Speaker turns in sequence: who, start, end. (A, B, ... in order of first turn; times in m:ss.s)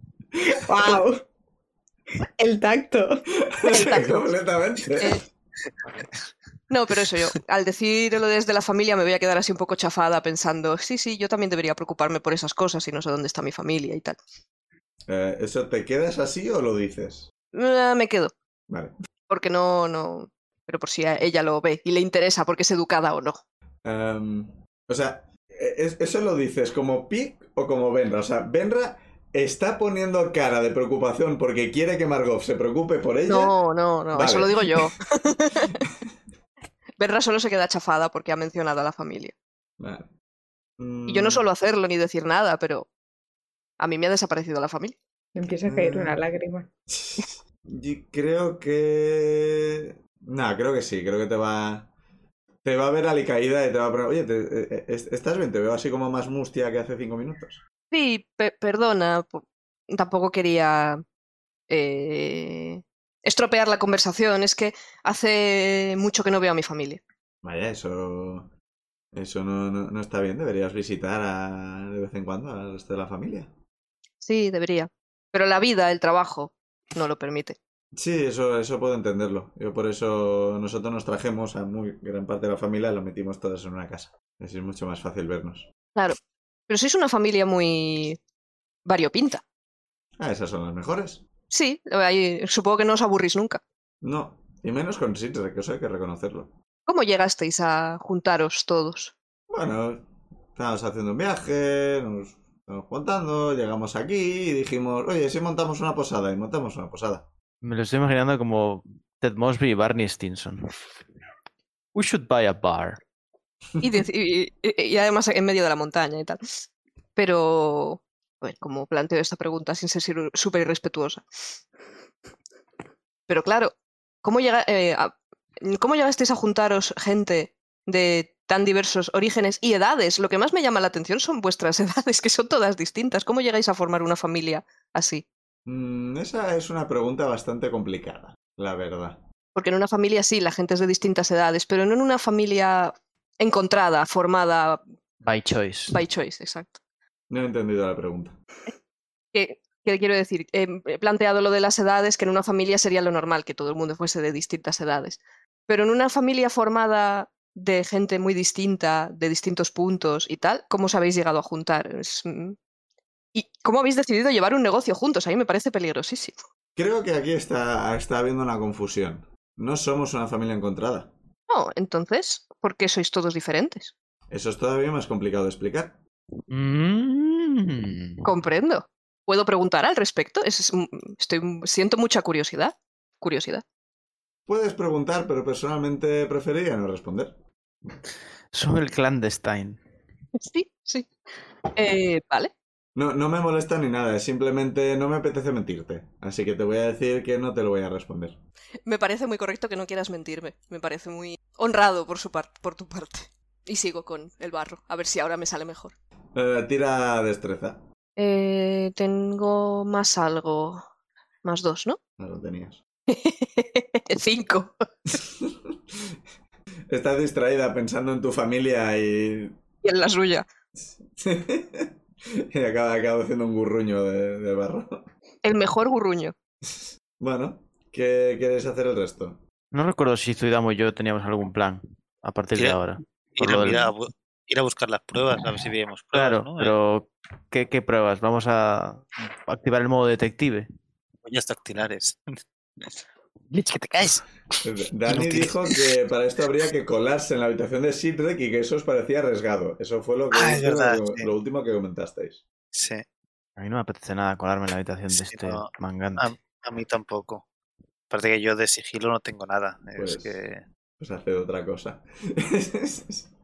0:00.4-0:01.0 A
0:00.6-0:01.2 B
0:02.4-0:04.2 B
0:03.6-0:05.2 A
0:03.7-0:04.2 C
0:06.7-0:14.2 C
0:15.1-0:17.3 A
0:17.5-0:18.3 C
0:18.7-0:18.9 A
0:19.3-0:23.4 C
0:23.8-0:33.6 A
0:33.3-0:35.8 C
0:34.1-0:34.8 A
0:37.0-0:39.4 C
0:39.8-0:40.1 A
0:40.8-0:41.4 A
0:41.1-0:42.9 C
0:43.8-0:45.0 C
0:45.4-0:46.7 B
0:45.7-0:46.2 A
0:46.9-0:51.9 A
0:52.6-0:57.6 A
0:57.9-1:01.0 C
1:01.7-1:07.0 C
1:07.4-1:08.5 A
1:09.1-1:13.5 A
1:14.2-1:17.6 C
1:18.0-1:25.7 A
1:26.7-1:28.2 C
1:28.8-1:29.4 C
1:30.2-1:31.2 A
1:31.5-1:33.6 C
1:34.0-1:36.5 A
1:36.9-1:39.1 C
1:39.5-1:47.3 A
1:47.6-1:50.7 D
1:52.0-1:53.0 D
1:53.8-1:56.4 C
1:57.2-2:01.2 C
2:03.3-2:15.2 C
2:15.7-2:19.2 A
2:19.6-2:24.8 C
2:25.2-2:26.0 D
2:25.9-2:26.8 C
2:27.3-2:28.4 A
2:29.3-2:42.6 C
2:43.4-2:46.4 C
2:46.8-2:51.1 A
2:51.5-2:53.9 C
2:54.3-2:56.0 A
2:56.5-2:58.3 D
2:58.2-3:03.6 C
3:04.5-3:07.4 A
3:08.5-3:09.8 D
3:10.4-3:11.1 C
3:11.8-3:12.5 C
3:13.0-3:18.4 A
3:18.9-3:25.9 C
3:26.4-3:27.8 A
3:28.2-3:30.8 C
3:31.4-3:32.0 C
3:32.2-3:32.8 A
3:33.1-3:34.7 C
3:35.1-3:36.2 A
3:36.9-3:39.6 A
3:39.8-3:40.5 C
3:40.8-3:45.1 A
3:45.4-3:46.4 C
3:46.7-3:49.4 A
3:49.7-3:53.9 D
3:53.4-3:56.8 E
3:56.1-4:00.7 D
4:01.2-4:02.2 E
4:03.5-4:05.9 E
4:04.6-4:12.4 A
4:10.3-4:11.3 E
4:12.7-4:13.0 E
4:13.6-4:16.3 D
4:15.1-4:17.4 E
4:18.1-4:20.6 E
4:20.0-4:20.4 A
4:21.0-4:23.3 A